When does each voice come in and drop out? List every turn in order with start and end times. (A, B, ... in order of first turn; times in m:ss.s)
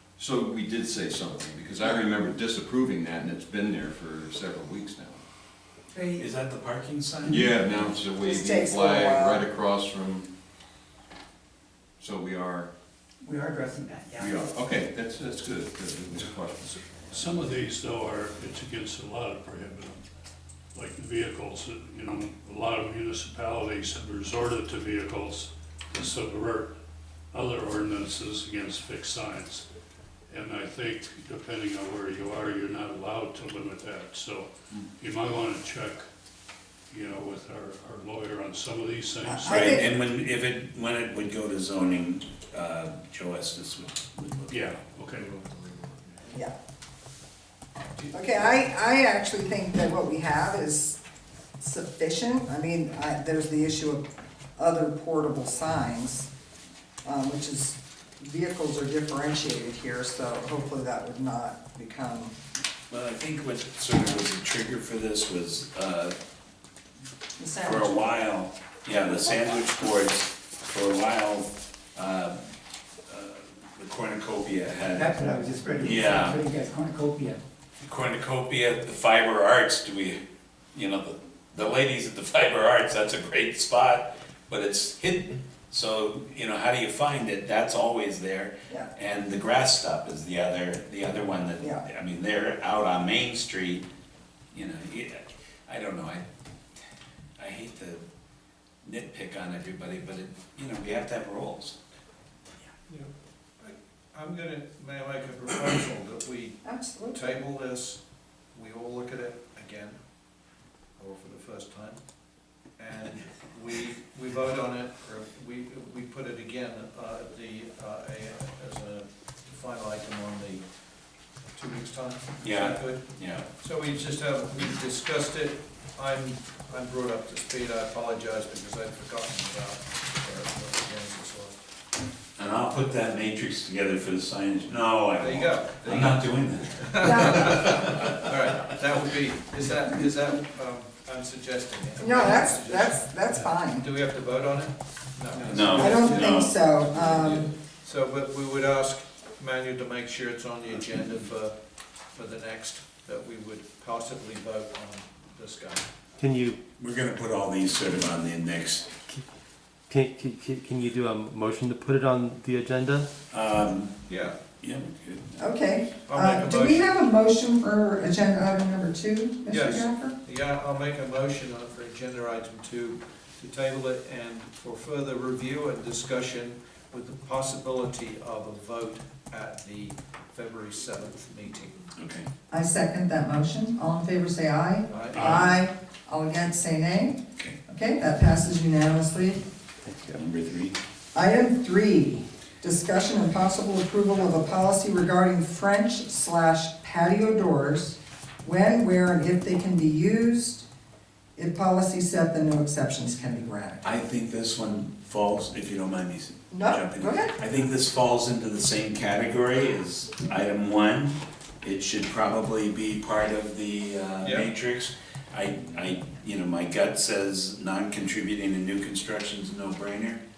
0:00.2-0:05.2 A
0:05.9-0:06.3 B
0:06.2-0:07.9 C
0:07.2-0:10.3 A
0:08.2-0:09.5 D
0:12.0-0:12.7 A
0:13.2-0:14.3 B
0:14.2-0:17.4 A
0:17.1-0:20.0 E
0:20.7-0:26.7 E
0:27.3-0:29.6 E
0:30.3-0:36.1 E
0:36.9-0:39.8 E
0:39.2-0:39.9 D
0:39.4-0:44.7 C
0:44.5-0:45.3 E
0:45.1-0:46.2 A
0:48.1-0:51.0 D
0:51.6-0:54.0 D
0:54.6-0:56.3 D
0:57.0-1:02.3 D
1:02.9-1:06.1 C
1:07.4-1:08.2 D
1:07.6-1:12.4 C
1:13.1-1:15.2 C
1:14.9-1:17.4 B
1:15.8-1:16.4 C
1:17.8-1:20.2 C
1:20.7-1:33.8 C
1:31.6-1:31.8 D
1:34.5-1:36.2 C
1:37.4-1:38.0 C
1:38.8-1:41.8 C
1:42.9-1:48.0 F
1:46.6-1:47.2 D
1:48.5-1:50.0 F
1:51.0-1:52.0 F
1:52.8-2:00.6 F
2:01.5-2:11.6 F
2:02.4-2:03.4 C
2:12.4-2:17.4 C
2:15.2-2:23.1 F
2:17.0-2:17.7 D
2:22.0-2:23.9 D
2:23.7-2:26.3 F
2:25.3-2:25.8 A
2:25.5-2:26.5 C
2:25.7-2:27.5 D
2:26.9-2:27.5 A
2:27.8-2:31.6 F
2:32.1-2:35.9 F
2:36.2-2:36.6 G
2:36.8-2:38.9 C
2:39.9-2:43.1 G
2:43.3-2:44.0 C
2:44.1-2:44.4 F
2:44.6-2:45.3 C
2:45.4-2:50.2 D
2:46.1-2:46.9 F
2:49.5-3:01.8 F
3:02.0-3:02.3 C
3:02.5-3:09.4 D
3:04.9-3:05.6 F
3:10.1-3:10.8 C
3:11.1-3:20.6 D
3:21.4-3:23.9 D
3:23.8-3:40.2 C
3:26.5-3:27.4 D
3:34.2-3:34.5 F